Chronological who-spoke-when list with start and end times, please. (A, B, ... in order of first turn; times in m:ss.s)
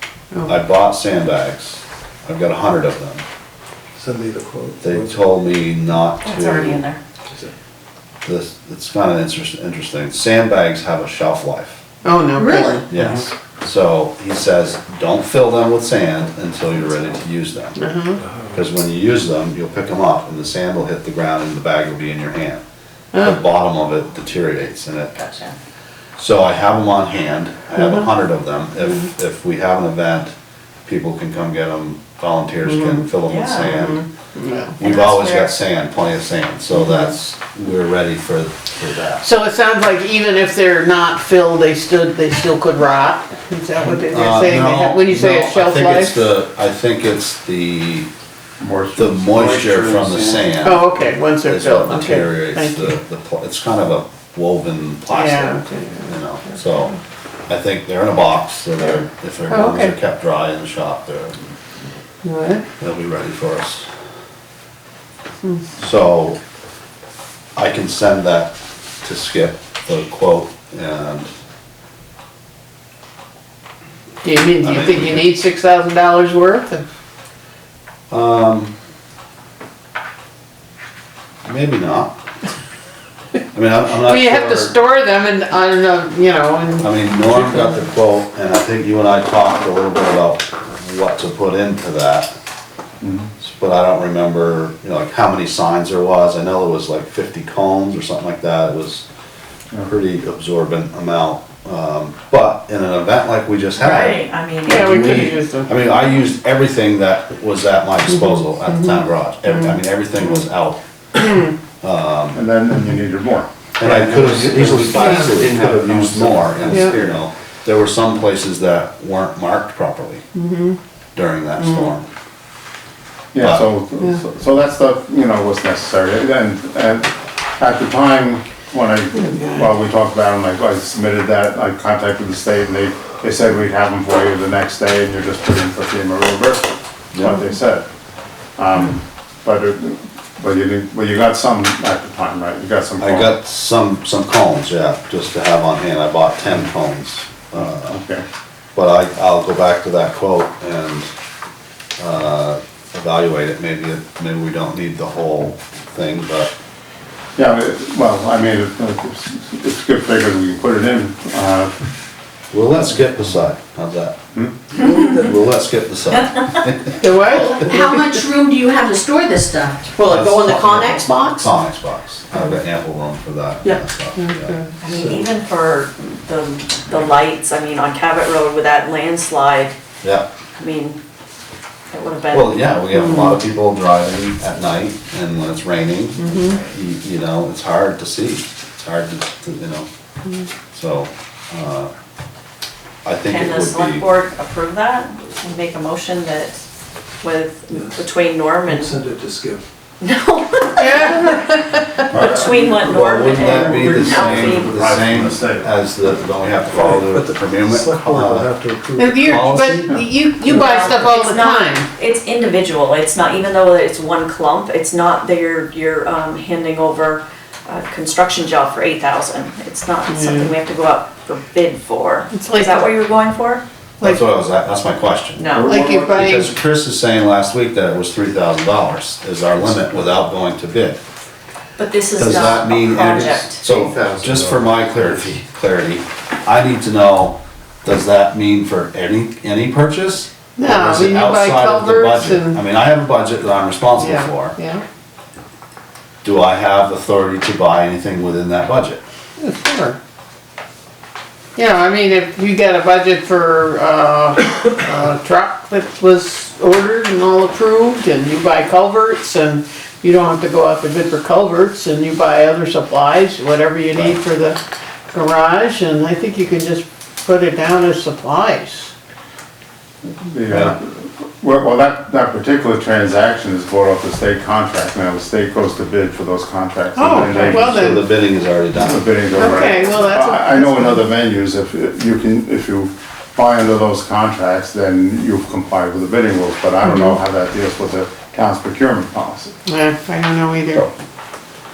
0:00.3-0:00.6 A
0:00.5-0:03.2 B
0:04.0-0:05.1 C
0:04.8-0:06.8 B
0:06.2-0:07.0 D
0:08.2-0:11.8 B
0:12.0-0:12.9 A
0:12.4-0:12.8 E
0:12.9-0:17.8 B
0:12.9-0:13.2 C
0:17.8-0:18.2 A
0:18.5-0:22.6 B
0:23.1-0:23.4 A
0:23.2-0:25.1 B
0:25.1-0:25.6 D
0:26.2-0:30.3 B
0:27.8-0:28.1 A
0:30.8-0:34.1 B
0:32.6-0:33.1 A
0:33.3-0:33.7 D
0:33.7-0:34.8 A
0:34.8-0:39.2 B
0:34.8-0:35.5 D
0:36.7-0:37.1 A
0:39.2-0:46.3 A
0:43.8-0:48.1 B
0:48.6-0:49.3 F
0:49.0-0:57.0 B
0:49.4-0:50.4 C
0:50.6-0:53.0 A
0:55.1-0:56.9 A
0:57.5-1:01.4 B
0:58.8-1:00.0 A
1:02.2-1:02.6 A
1:02.8-1:03.9 B
1:05.8-1:06.4 B
1:07.6-1:11.3 B
1:14.2-1:16.8 A
1:14.6-1:15.3 B
1:18.1-1:18.7 B
1:21.4-1:22.2 B
1:23.5-1:24.8 B
1:23.9-1:27.8 A
1:26.8-1:32.3 B
1:33.0-1:33.3 F
1:33.4-1:39.1 B
1:39.8-1:50.8 B
1:43.8-1:45.3 D
1:44.6-1:45.8 A
1:48.1-1:49.0 A
1:49.5-1:49.8 A
1:51.8-1:52.4 B
1:52.3-1:53.5 F
1:53.8-2:00.2 B
1:53.8-1:57.0 C
1:54.9-1:55.3 A
1:56.7-1:56.9 A
2:00.3-2:00.8 A
2:01.2-2:02.1 B
2:01.6-2:01.9 A
2:03.3-2:17.9 F
2:09.1-2:09.7 A
2:17.1-2:17.4 B
2:18.6-2:23.3 F
2:23.0-2:28.0 B
2:27.6-2:28.2 F
2:28.8-2:31.1 B
2:32.0-2:36.5 B
2:37.4-2:41.7 F
2:42.5-2:44.2 B
2:44.8-2:47.1 B
2:46.2-2:46.5 D
2:47.0-2:48.2 A
2:47.3-2:51.3 E
2:50.0-2:54.6 B
2:54.2-2:54.7 A
2:54.8-2:59.8 D
2:54.9-2:55.2 C
3:00.0-3:00.3 B
3:00.6-3:01.0 D
3:01.9-3:02.7 D
3:02.3-3:09.9 B
3:02.9-3:03.4 A
3:06.2-3:06.6 A
3:10.7-3:11.9 B
3:13.0-3:14.1 B
3:13.2-3:16.6 D
3:17.2-3:19.0 D
3:17.7-3:18.1 C
3:18.7-3:19.6 C
3:20.0-3:21.4 D
3:20.8-3:22.0 A
3:22.1-3:24.8 D
3:22.1-3:28.5 B
3:22.2-3:22.6 C
3:23.5-3:25.8 C
3:26.6-3:29.9 C
3:29.0-3:31.9 A
3:29.3-3:29.8 B
3:30.4-3:43.6 D
3:40.1-3:40.5 A
3:42.3-3:42.9 A
3:44.0-3:51.0 B
3:45.4-3:46.1 D
3:45.6-3:46.6 A
3:51.8-3:53.7 D
3:52.2-4:04.6 B
3:53.7-3:55.1 C
4:00.6-4:02.6 A
4:04.0-4:04.8 A
4:06.2-4:09.0 B
4:09.4-4:10.0 A
4:11.6-4:24.6 A
4:25.1-4:28.9 A
4:30.0-4:38.0 F
4:30.5-4:30.8 B
4:37.0-4:38.1 A
4:37.4-4:39.1 B
4:38.8-4:49.6 F
4:39.3-4:41.1 A
4:46.8-4:47.2 A
4:49.7-4:50.9 A